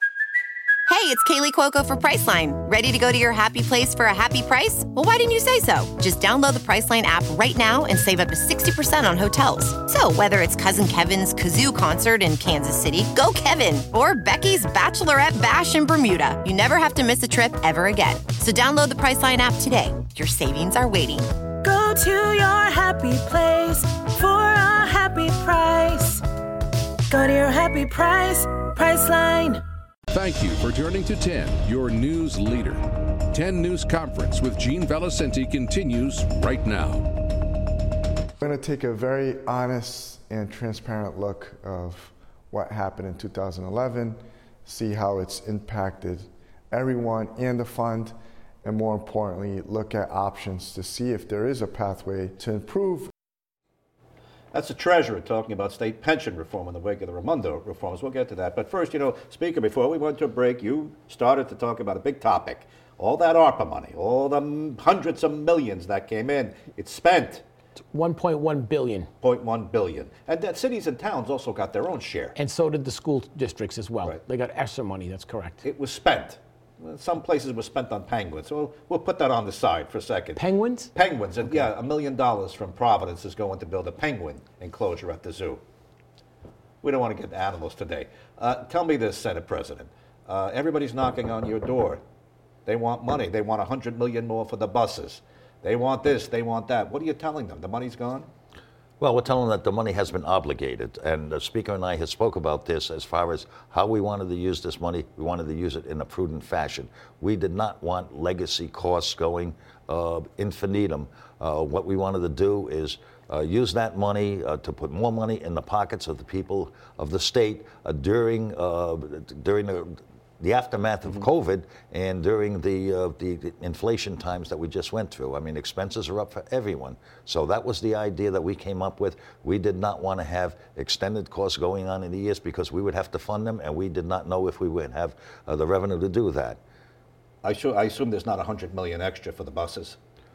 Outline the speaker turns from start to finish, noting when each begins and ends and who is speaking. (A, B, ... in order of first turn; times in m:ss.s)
0:00.9-0:21.3 A
0:21.6-0:26.2 B
0:27.1-0:29.6 B
0:30.1-0:37.1 C
0:38.4-0:53.1 D
0:54.5-1:07.4 E
1:07.9-1:09.1 F
1:09.2-1:12.3 E
1:12.4-1:15.6 F
1:15.6-1:20.4 E
1:20.4-1:20.9 F
1:20.9-1:25.6 E
1:26.8-1:32.0 E
1:32.6-1:38.3 E
1:39.0-2:16.6 G
2:17.4-2:20.0 E